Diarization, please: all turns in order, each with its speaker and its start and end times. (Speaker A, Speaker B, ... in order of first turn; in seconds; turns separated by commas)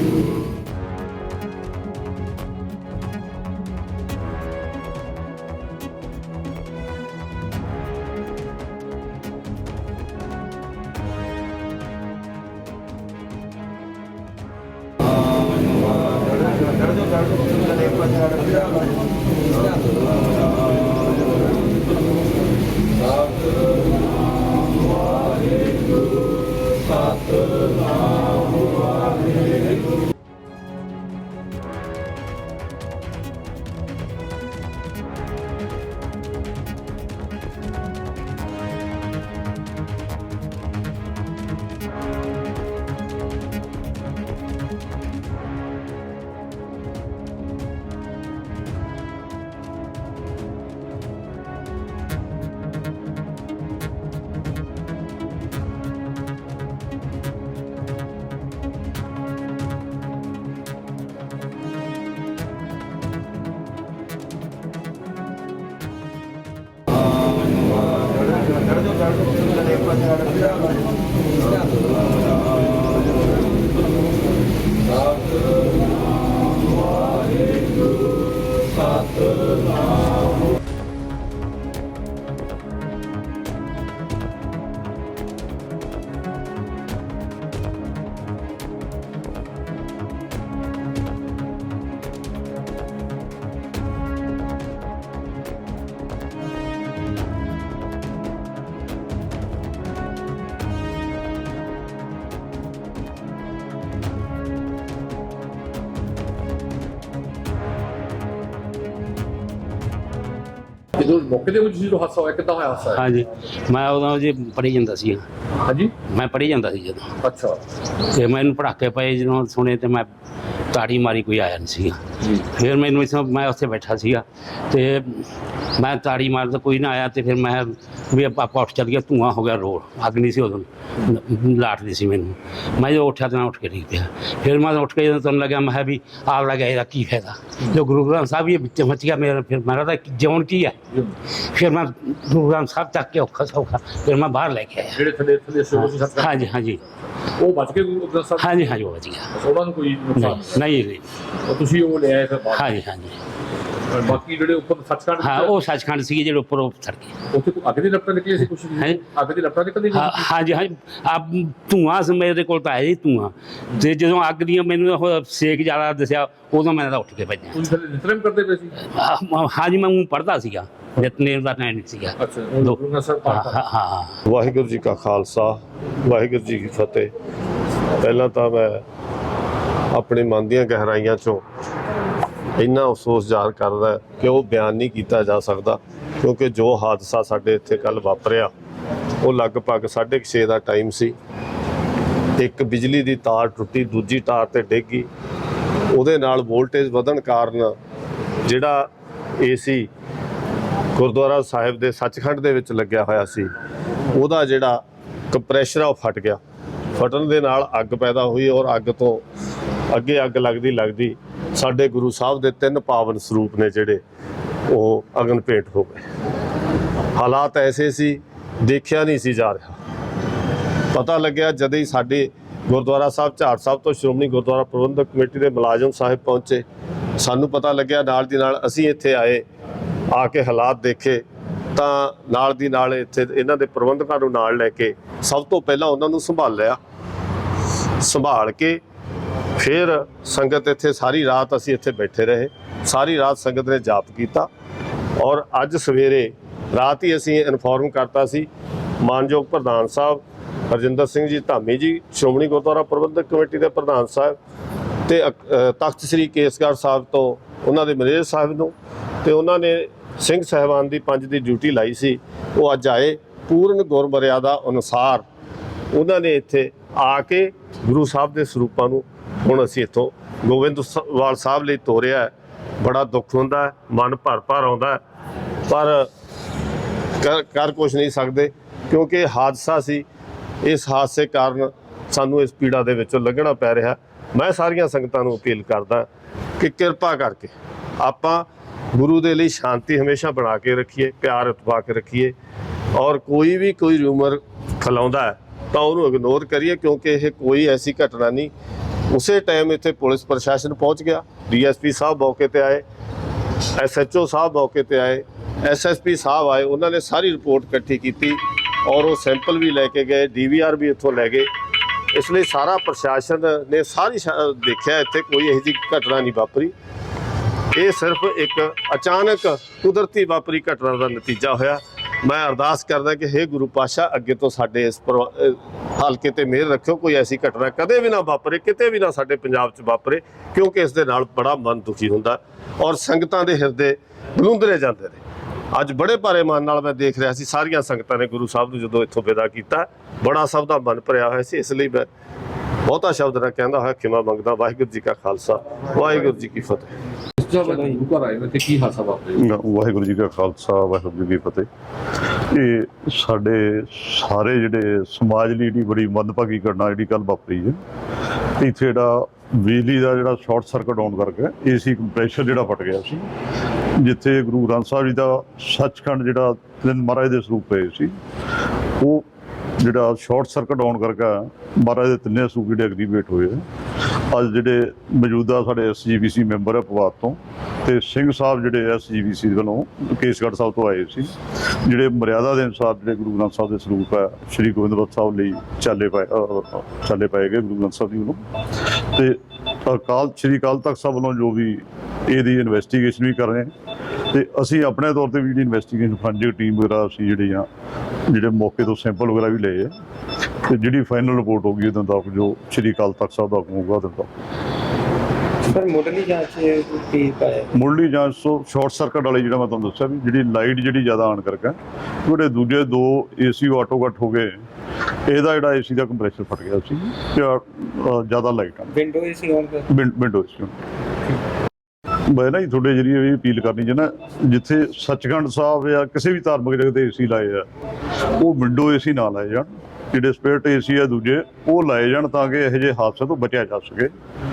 Speaker A: 111.0-113.0, Speaker B: 112.9-115.2, Speaker A: 115.7-115.9, Speaker B: 116.1-117.1, Speaker A: 117.2-117.6, Speaker B: 118.1-120.1, Speaker B: 120.7-140.8, Speaker A: 140.9-141.2, Speaker B: 141.4-145.0, Speaker A: 144.9-146.5, Speaker B: 145.8-146.8, Speaker A: 147.3-148.8, Speaker B: 148.4-149.3, Speaker A: 149.3-150.7, Speaker B: 150.2-151.1, Speaker A: 151.4-152.7, Speaker B: 152.5-153.2, Speaker A: 153.9-155.6, Speaker B: 155.2-157.1, Speaker A: 157.3-160.3, Speaker B: 158.8-159.0, Speaker B: 159.9-167.6, Speaker A: 167.5-168.8, Speaker B: 168.8-172.7, Speaker A: 172.2-173.6, Speaker B: 173.3-174.2, Speaker C: 174.2-177.1, Speaker C: 178.0-178.8, Speaker C: 179.9-181.4, Speaker C: 182.6-188.5, Speaker C: 189.2-191.2, Speaker C: 192.4-195.1, Speaker C: 195.9-197.7, Speaker C: 198.4-199.9, Speaker C: 201.0-203.5, Speaker C: 204.1-206.4, Speaker C: 206.9-209.2, Speaker C: 209.9-214.0, Speaker C: 214.7-216.0, Speaker C: 217.2-219.8, Speaker C: 220.9-226.7, Speaker C: 227.2-229.4, Speaker C: 230.1-231.2, Speaker C: 231.8-236.8, Speaker C: 238.0-238.8, Speaker C: 239.6-244.5, Speaker C: 245.2-248.5, Speaker C: 249.0-254.4, Speaker C: 255.1-265.2, Speaker C: 265.9-275.0, Speaker C: 275.7-276.1, Speaker C: 277.2-280.1, Speaker C: 280.6-292.4, Speaker C: 292.9-298.5, Speaker C: 299.1-302.9, Speaker C: 303.8-311.5, Speaker C: 312.1-316.7, Speaker C: 317.7-335.2, Speaker C: 335.7-342.1, Speaker C: 342.9-346.9, Speaker A: 347.4-349.4, Speaker D: 349.4-351.7, Speaker D: 352.2-357.8, Speaker D: 358.6-363.3, Speaker D: 364.0-368.1, Speaker D: 369.0-369.3, Speaker D: 369.8-373.6, Speaker D: 374.3-393.7, Speaker D: 394.3-397.7, Speaker D: 398.3-399.9, Speaker D: 400.7-404.3, Speaker E: 405.6-407.7, Speaker D: 407.7-414.6, Speaker D: 415.3-419.0, Speaker E: 418.9-419.9, Speaker D: 419.9-420.7, Speaker D: 422.3-427.7, Speaker D: 428.4-434.1